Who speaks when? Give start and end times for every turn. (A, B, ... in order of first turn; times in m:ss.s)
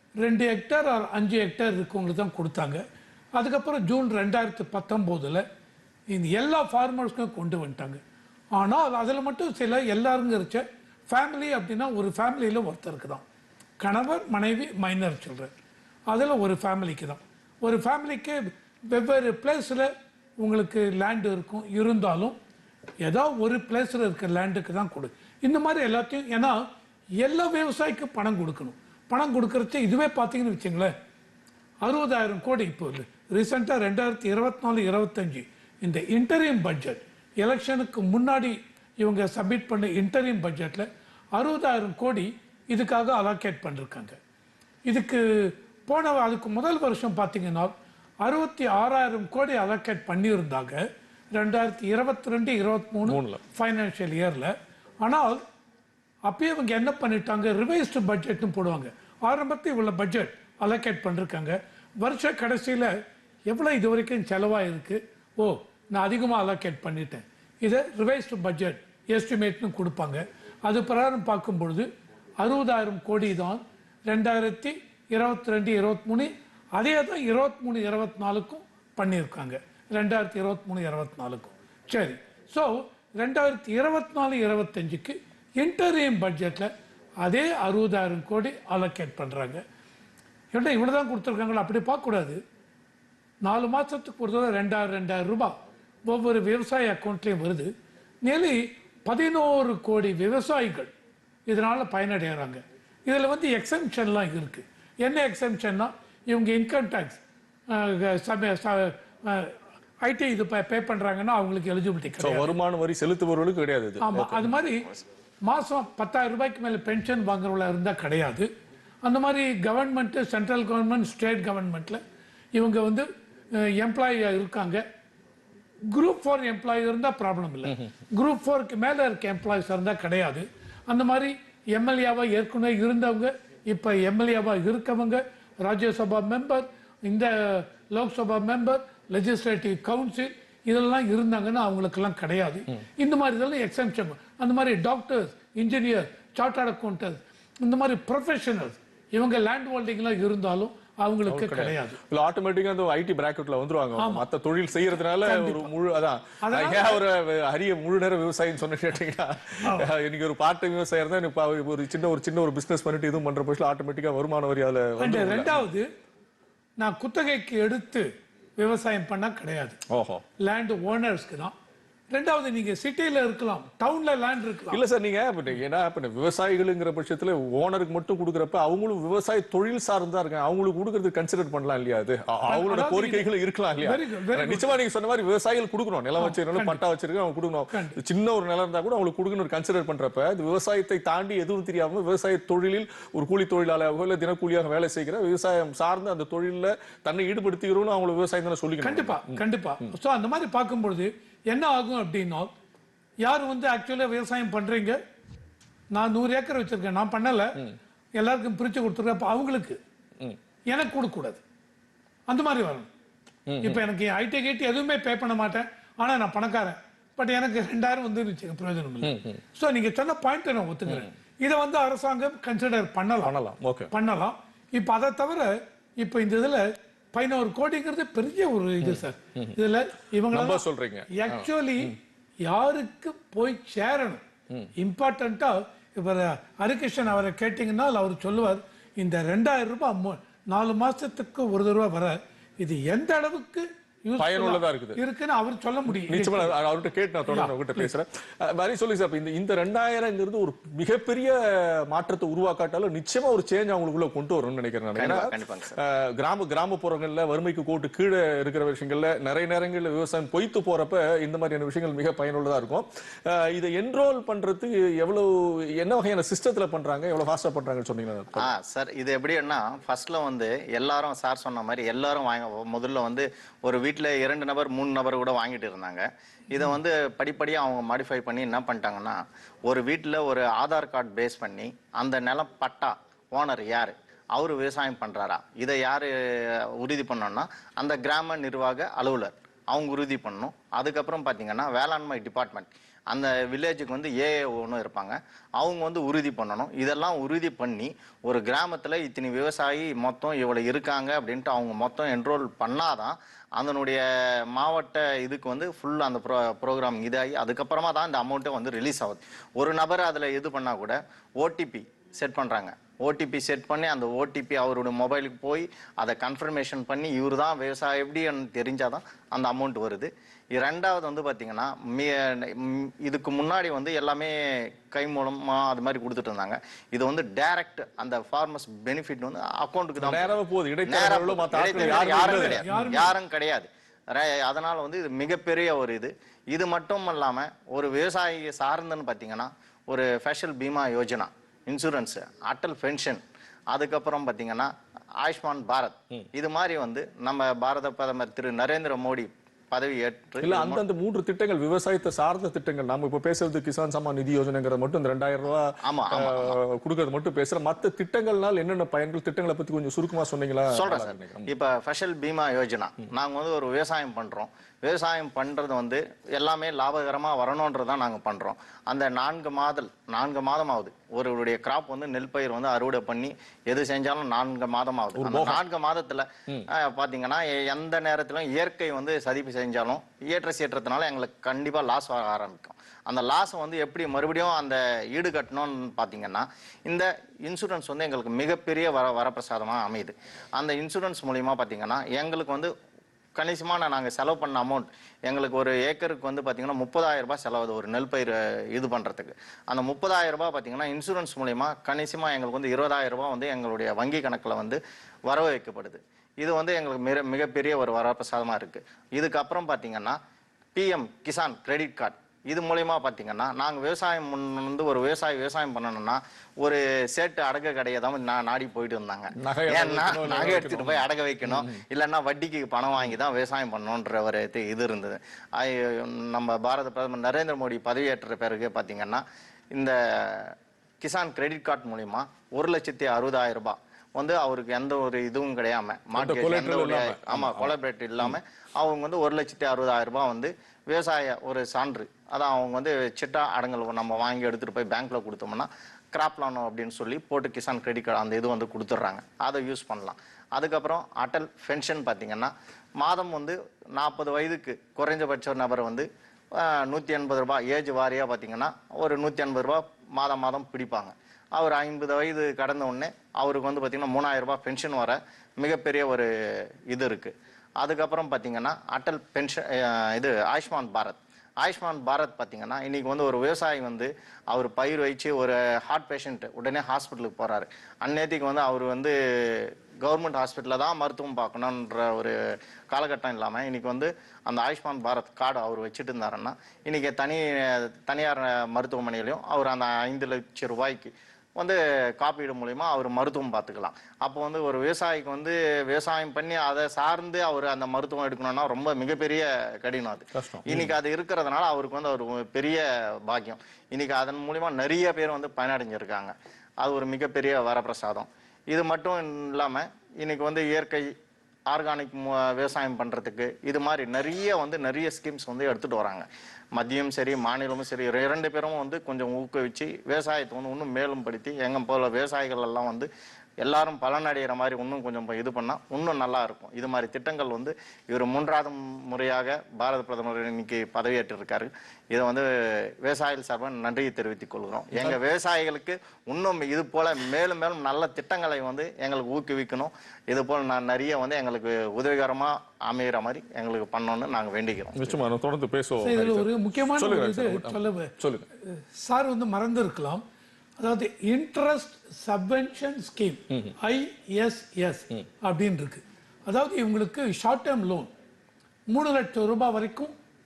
0:00.2-0:02.8 A
0:03.3-0:05.4 A
0:06.1-0:08.0 A
0:08.5-0:13.2 A
0:13.8-0:15.5 A
0:16.1-0:22.4 A
0:23.0-0:26.7 A
0:27.2-0:30.9 A
0:31.8-0:44.2 A
0:44.9-0:55.4 A
0:53.0-0:53.4 B
0:56.3-1:03.0 A
1:03.5-1:11.9 A
1:12.4-1:26.7 A
1:27.2-1:29.6 A
1:30.5-1:32.4 A
1:33.4-1:35.6 A
1:36.1-1:37.7 A
1:38.2-1:40.9 A
1:41.5-1:52.5 A
1:52.2-1:54.5 B
1:54.0-1:54.9 A
1:55.4-1:58.5 A
1:59.0-2:02.0 A
2:02.5-2:04.8 A
2:05.9-2:32.0 A
2:31.3-2:45.6 B
2:34.0-2:34.2 A
2:35.1-2:35.7 A
2:36.4-2:37.0 A
2:39.6-2:39.9 A
2:45.0-2:45.9 A
2:46.8-2:49.8 A
2:49.9-2:50.2 B
2:50.4-2:51.5 A
2:52.1-2:54.8 A
2:54.7-3:19.9 B
3:02.5-3:03.3 A
3:03.8-3:04.8 A
3:06.2-3:06.8 A
3:07.7-3:08.0 A
3:18.8-3:22.5 A
3:23.2-3:25.0 A
3:25.9-3:27.6 A
3:28.2-3:29.8 A
3:30.7-3:31.4 A
3:32.3-3:32.9 A
3:33.5-3:33.8 B
3:33.6-3:43.3 A
3:39.0-3:39.4 B
3:43.2-3:43.9 B
3:43.9-3:54.2 A
3:48.8-3:49.6 B
3:50.3-3:52.0 B
3:54.8-4:06.6 A
4:04.2-4:05.0 B
4:05.9-4:28.5 B
4:07.3-4:07.9 A
4:15.0-4:15.8 C
4:28.3-5:30.4 C
5:30.0-5:32.6 B
5:30.9-5:50.8 C
5:31.8-5:33.2 A
5:50.4-6:01.5 B
5:55.8-5:56.6 C
6:00.7-6:32.7 C
6:15.1-6:15.6 B
6:33.3-6:50.2 C
6:50.7-8:31.1 C
6:59.4-7:01.8 B
7:16.1-7:18.4 B
8:20.3-8:20.9 B
8:31.7-8:43.1 C
8:43.6-9:05.0 C
8:54.9-8:55.2 B
9:04.9-9:08.4 B
9:06.0-9:10.2 A
9:10.8-9:18.1 A
9:18.9-9:20.1 A